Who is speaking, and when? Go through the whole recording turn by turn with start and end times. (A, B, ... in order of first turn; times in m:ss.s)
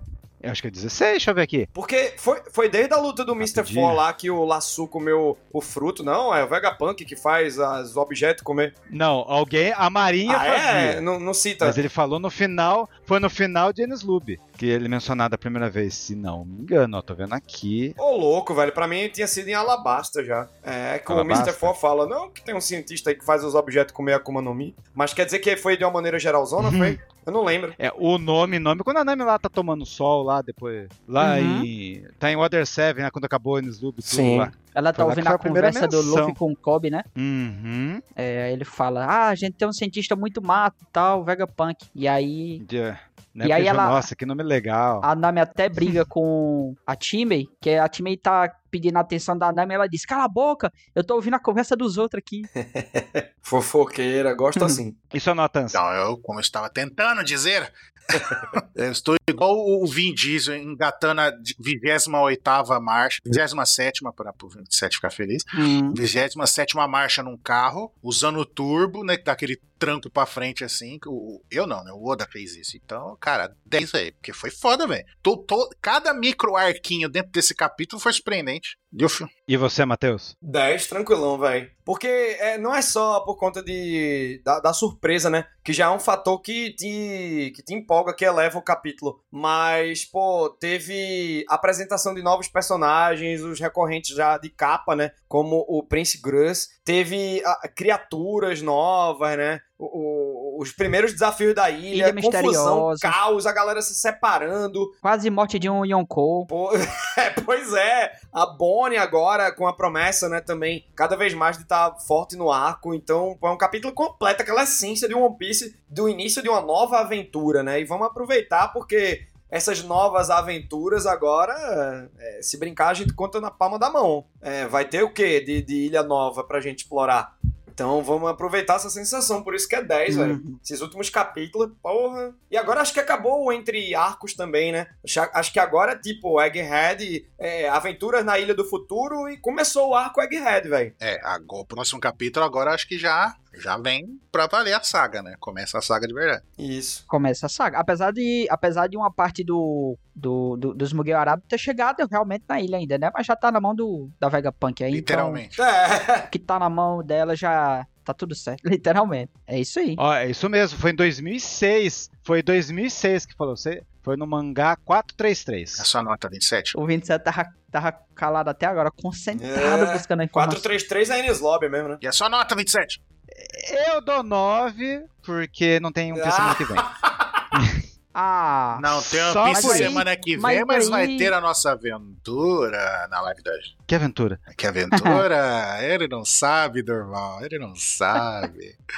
0:00.4-0:01.7 A
0:01.7-0:08.7 B
0:03.4-0:04.0 A
0:08.9-0:11.0 A
0:10.3-0:11.8 B
0:11.6-0:18.0 A
0:18.0-0:27.8 B
0:21.1-0:21.7 A
0:26.6-0:27.0 A
0:27.8-0:36.4 A
0:31.2-0:31.7 C
0:34.0-0:34.5 B
0:34.8-0:37.0 C
0:37.2-0:38.0 A
0:38.2-0:42.6 C
0:42.6-0:45.1 A
0:43.4-0:44.1 C
0:45.0-0:52.5 C
0:52.6-0:55.0 B
0:55.1-0:55.8 A
0:55.7-1:19.3 D
1:05.5-1:06.0 C
1:19.5-1:20.3 A
1:20.4-1:44.9 B
1:41.9-1:43.2 C
1:45.0-1:46.5 C
1:46.5-2:20.9 B
2:10.1-2:10.6 C
2:21.0-2:26.4 D
2:26.6-2:27.0 B
2:27.1-2:35.4 C
2:34.9-2:35.6 D
2:35.6-2:36.3 B
2:36.3-2:40.0 C
2:40.0-2:45.9 A
2:45.8-2:46.8 D
2:46.7-2:50.7 C
2:49.4-2:52.0 B
2:52.0-2:53.0 D
2:53.4-2:56.8 A
2:56.1-2:57.4 B
2:58.2-2:58.9 C
2:58.8-3:03.7 D
2:58.9-3:00.0 A
2:59.4-3:01.3 C
3:03.9-3:04.4 A
3:04.5-3:08.8 D
3:04.9-3:05.2 C